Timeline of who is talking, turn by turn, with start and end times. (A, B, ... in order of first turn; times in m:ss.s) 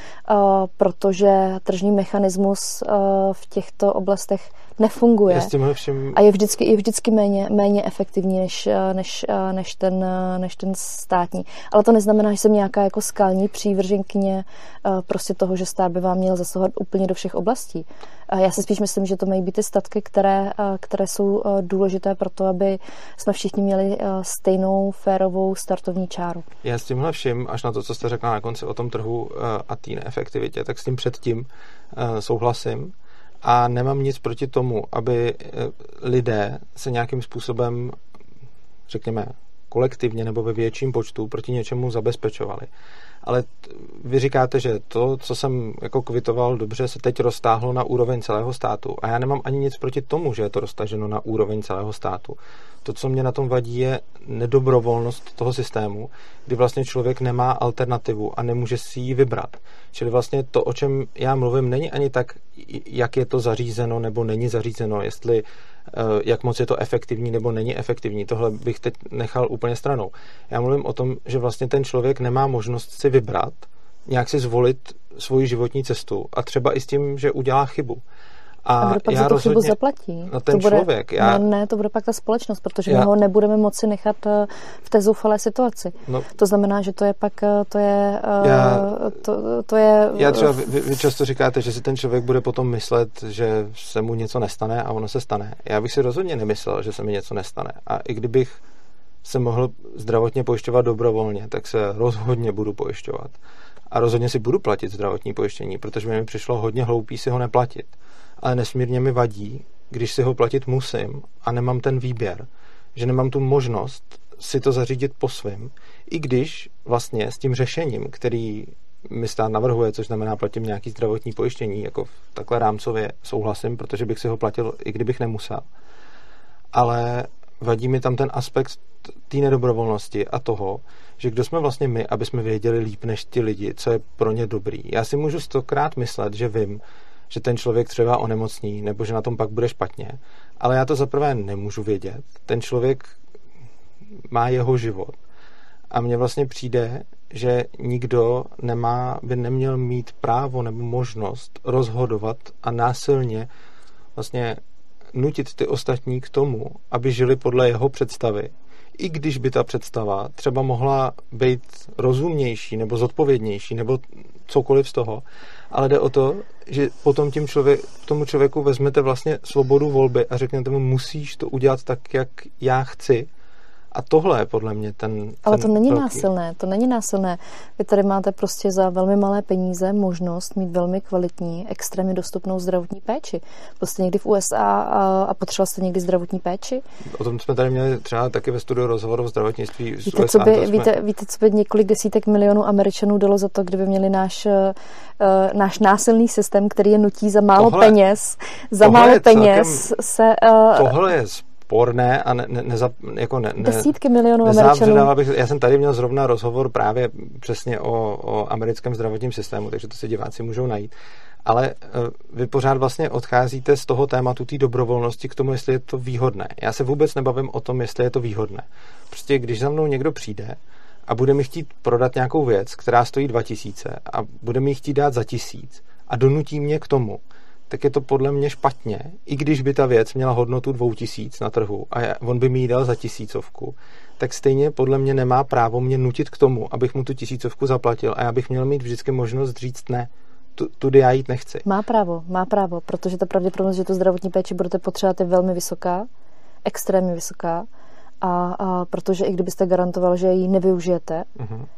0:00.3-0:05.5 A
0:05.3-0:06.2 B
0:06.1-0:26.4 A
0:26.6-0:38.0 B
0:38.9-0:42.7 B
0:43.2-1:18.0 B
1:18.6-1:19.7 B
1:18.8-1:30.5 A
1:20.3-1:21.4 B
1:28.4-1:28.9 B
1:30.1-1:38.6 B
1:39.2-1:43.4 B
1:43.9-2:05.6 B
2:06.7-2:23.1 B
2:24.3-2:25.2 B
2:25.9-2:33.5 B
2:34.2-2:34.6 B
2:35.1-2:53.3 B
2:53.9-2:56.2 B
2:55.4-3:06.8 A
3:07.1-3:10.9 B
3:10.1-3:21.0 A
3:17.6-3:18.0 B
3:18.8-3:19.9 B
3:20.7-3:30.9 B
3:23.6-3:25.1 A
3:31.4-4:01.6 B
4:01.6-4:06.1 A
4:06.6-4:07.7 A
4:08.2-4:11.3 A
4:11.4-4:11.7 B